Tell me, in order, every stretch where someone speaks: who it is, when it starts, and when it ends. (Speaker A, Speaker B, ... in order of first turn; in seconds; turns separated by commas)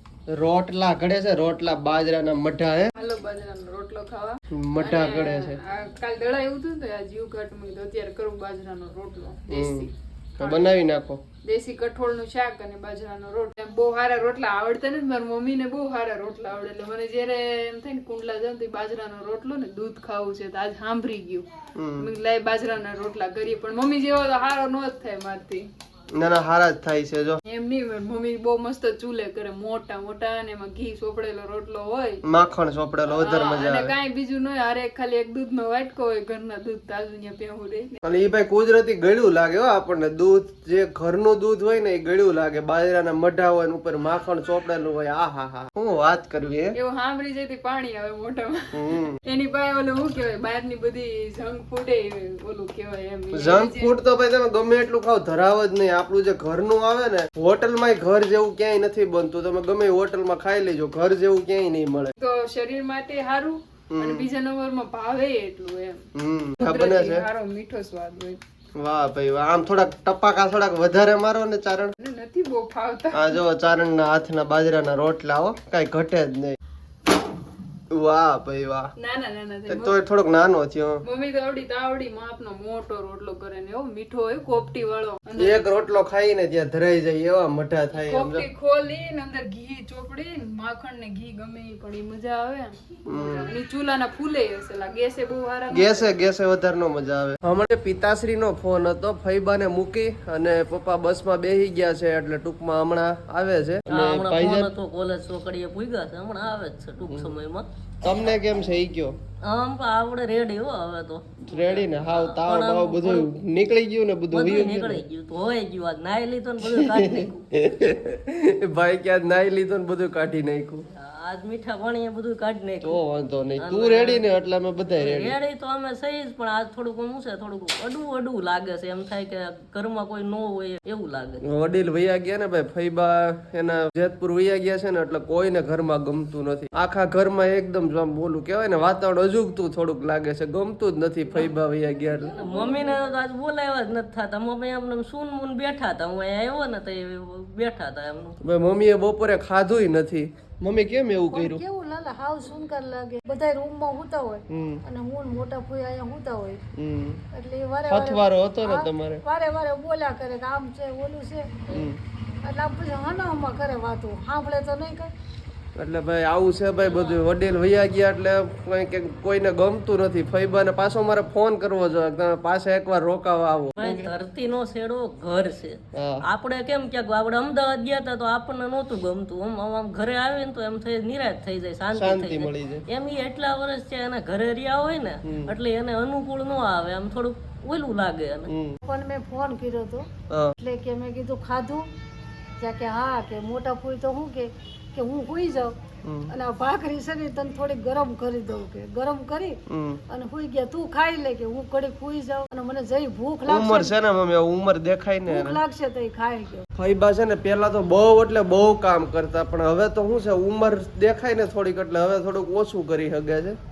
Speaker A: 0.3-2.9, Speaker B: 3.0-10.8, Speaker A: 4.5-5.6, Speaker A: 9.5-11.2, Speaker B: 11.4-25.7, Speaker A: 21.8-22.1, Speaker A: 26.1-27.4, Speaker B: 27.4-32.2, Speaker A: 32.3-33.9, Speaker B: 33.1-38.0, Speaker A: 38.0-46.8, Speaker B: 46.7-54.0, Speaker A: 48.7-49.1, Speaker A: 53.3-62.1, Speaker B: 62.2-66.0, Speaker A: 63.9-64.3, Speaker A: 66.1-67.2, Speaker B: 66.6-68.4, Speaker A: 68.8-71.9, Speaker B: 72.0-73.4, Speaker A: 73.1-76.6, Speaker A: 77.9-78.9, Speaker B: 79.0-80.0, Speaker A: 79.7-81.0, Speaker B: 81.0-85.6, Speaker A: 85.4-88.5, Speaker B: 88.0-96.1, Speaker A: 93.0-93.5, Speaker A: 95.7-104.7, Speaker C: 103.9-107.7, Speaker A: 107.1-107.3, Speaker A: 108.0-109.1, Speaker C: 109.5-113.3, Speaker A: 111.5-115.0, Speaker C: 114.3-117.3, Speaker A: 116.7-120.8, Speaker C: 121.0-123.0, Speaker A: 122.8-125.3, Speaker C: 123.6-124.2, Speaker C: 125.0-131.4, Speaker A: 131.4-142.3, Speaker D: 141.8-143.2, Speaker C: 142.3-148.4, Speaker A: 148.4-151.6, Speaker D: 151.3-156.6, Speaker A: 154.5-154.8, Speaker A: 156.8-157.2, Speaker D: 157.3-161.9, Speaker A: 157.9-159.2, Speaker A: 161.7-162.0, Speaker D: 162.4-165.1, Speaker A: 165.8-174.1, Speaker C: 173.8-175.8, Speaker A: 175.9-176.2, Speaker C: 176.3-188.5, Speaker A: 181.9-182.8, Speaker A: 185.2-185.5, Speaker A: 188.5-188.8, Speaker D: 188.8-190.1, Speaker A: 190.3-190.6, Speaker D: 190.6-191.9, Speaker D: 192.6-195.7, Speaker A: 196.0-196.3, Speaker D: 196.3-199.6, Speaker A: 199.7-200.0, Speaker D: 200.1-203.9, Speaker A: 203.5-205.6, Speaker D: 205.3-206.6, Speaker A: 206.8-213.6